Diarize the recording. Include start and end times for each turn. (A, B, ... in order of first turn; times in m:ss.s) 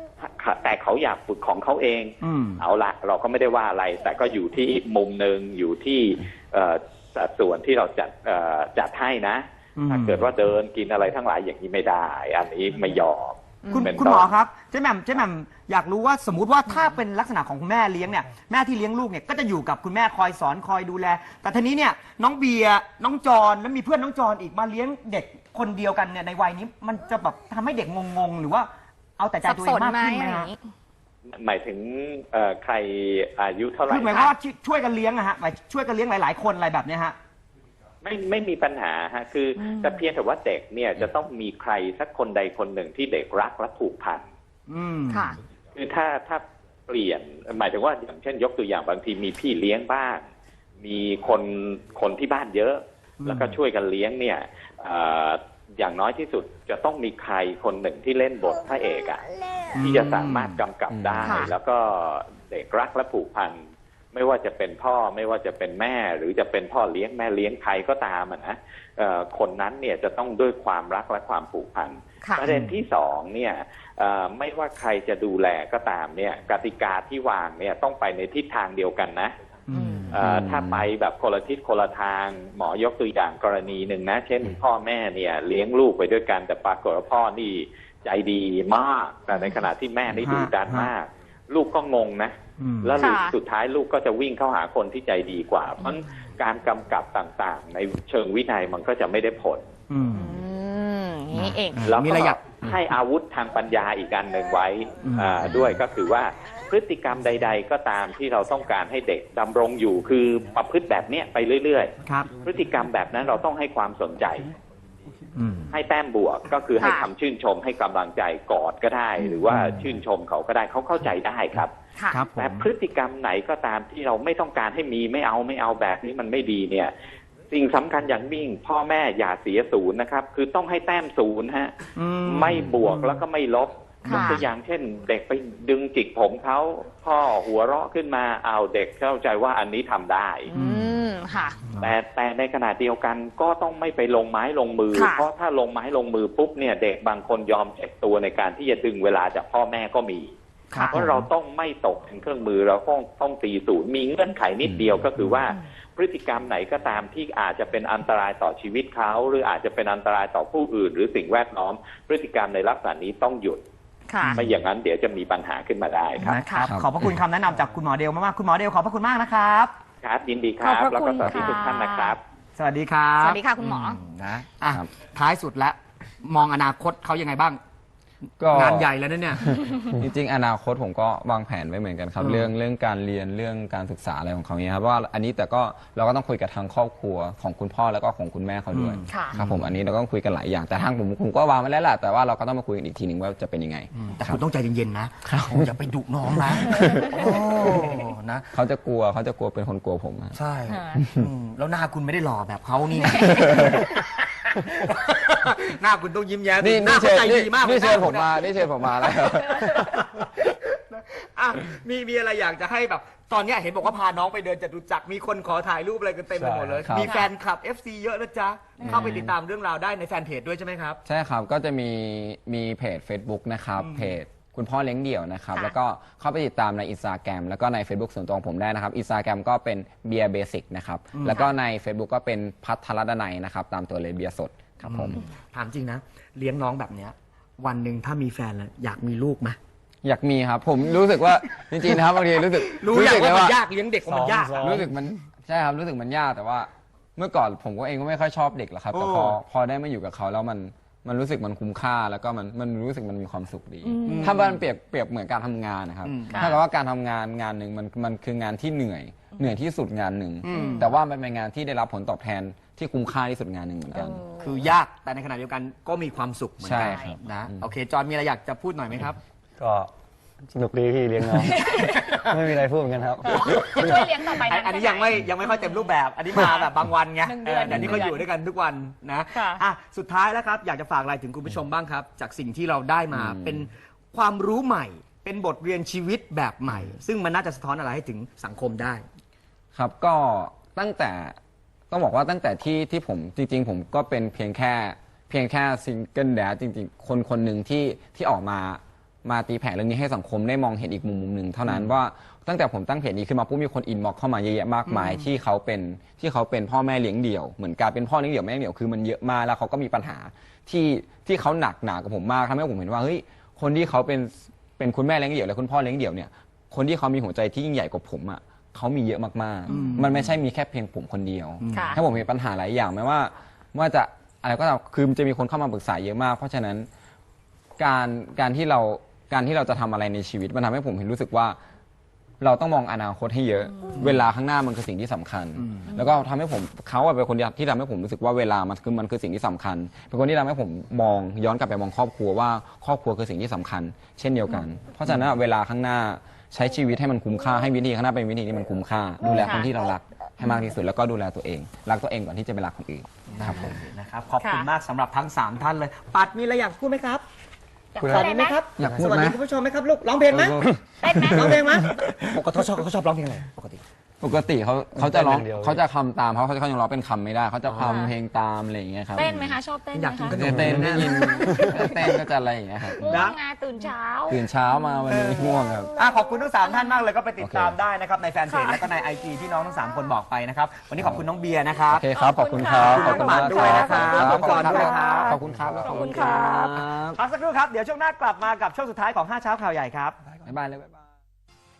0:00.2-0:14.3 A
0:02.2-0:02.6 B
0:09.8-0:10.3 B
0:13.7-0:30.5 B
0:29.4-0:30.6 C
0:31.4-0:34.3 A
0:33.9-0:37.2 B
0:38.0-0:44.2 A
0:39.6-0:40.0 C
0:44.7-0:45.3 B
0:45.1-0:45.4 C
0:45.7-0:50.2 A
0:50.8-1:03.6 A
0:53.2-0:53.6 B
0:59.8-1:00.6 B
1:00.9-1:01.4 D
1:01.2-1:01.5 C
1:04.1-1:19.3 A
1:12.5-1:12.8 B
1:19.7-1:20.1 B
1:19.7-1:20.1 C
1:20.1-1:39.7 A
1:20.1-1:20.9 D
1:30.1-1:30.9 B
1:32.6-1:32.9 B
1:33.0-1:33.4 C
1:39.9-1:40.4 B
1:40.1-1:42.4 C
1:41.3-1:42.4 B
1:41.9-1:54.5 A
1:45.0-1:45.6 B
1:52.0-1:52.3 B
1:55.4-1:55.7 B
1:55.7-2:01.7 A
1:56.8-1:57.1 C
2:02.0-2:02.2 C
2:02.1-2:02.7 B
2:02.3-2:06.9 A
2:07.5-2:20.5 A
2:12.0-2:13.2 B
2:14.1-2:14.4 C
2:20.5-2:21.6 C
2:20.6-2:20.8 B
2:21.8-2:30.3 A
2:24.9-2:25.2 C
2:30.7-2:31.3 B
2:30.9-2:43.6 A
2:34.6-2:35.0 D
2:44.1-2:44.4 C
2:44.2-2:44.5 B
2:44.3-2:46.3 A
2:46.2-2:46.7 C
2:46.2-2:49.7 B
2:50.0-2:52.2 A
2:50.6-2:52.1 C
2:52.6-2:57.6 B
2:53.2-2:54.0 C
2:58.4-2:58.9 D
2:58.5-2:59.6 B
2:59.9-3:14.4 D
3:02.2-3:02.5 B
3:08.7-3:09.6 B
3:09.1-3:09.4 C
3:14.0-3:18.5 B
3:15.3-3:15.7 D
3:16.5-3:17.7 D
3:18.5-3:20.4 D
3:20.3-3:41.0 B
3:20.7-3:21.0 C
3:21.0-3:21.2 D
3:26.6-3:29.7 D
3:36.3-3:36.9 E
3:36.8-3:37.1 D
3:36.9-3:37.3 C
3:38.8-3:39.3 C
3:38.9-3:39.2 D
3:41.0-3:55.2 D
3:43.8-3:44.1 B
3:51.1-3:51.4 B
3:54.9-3:59.6 B
4:00.0-4:03.6 D
4:02.7-4:04.8 B
4:04.0-4:04.9 E
4:04.6-4:24.2 D
4:08.9-4:09.4 B
4:13.8-4:14.4 C
4:14.1-4:14.6 B
4:16.0-4:16.6 B
4:16.3-4:16.6 C
4:20.4-4:20.9 B
4:20.5-4:20.9 C
4:23.9-4:24.5 C
4:24.4-4:29.2 B
4:26.6-4:27.6 D
4:26.8-4:27.2 C
4:29.6-4:29.9 E
4:30.5-4:31.7 E
4:31.4-4:32.4 B
4:31.5-4:32.2 C
4:32.2-4:34.0 E
4:33.2-4:36.7 C
4:33.5-4:49.0 B
4:37.2-4:38.3 C
4:39.3-4:39.6 C
4:43.1-4:43.7 D
4:49.8-4:51.4 D
4:51.9-5:26.9 D
5:19.7-5:20.4 B
5:21.6-5:22.0 B
5:21.7-5:22.0 C
5:27.8-5:31.6 D
5:32.4-5:53.1 D
5:34.0-5:34.2 B
5:49.3-5:49.7 C
5:53.3-5:57.2 B
5:54.4-5:54.7 C
5:58.0-5:58.6 C
5:58.0-5:58.3 E
5:58.1-6:00.7 B
5:58.8-5:59.4 D
5:58.8-5:59.1 E
6:00.5-6:00.8 E
6:01.0-6:01.7 C
6:01.3-6:03.8 B
6:04.2-6:09.6 D
6:05.0-6:05.8 E
6:07.8-6:08.1 C
6:09.2-6:10.4 C
6:09.9-6:12.0 B
6:10.4-6:13.1 D
6:10.5-6:11.8 E
6:11.3-6:11.8 C
6:12.9-6:13.4 B
6:13.0-6:14.4 C
6:14.3-6:15.9 D
6:15.1-6:22.1 B
6:17.4-6:17.8 D
6:18.5-6:18.8 C
6:21.9-6:27.2 D
6:22.1-6:26.8 C
6:22.8-6:25.4 B
6:27.1-6:30.2 B
6:30.4-6:31.1 D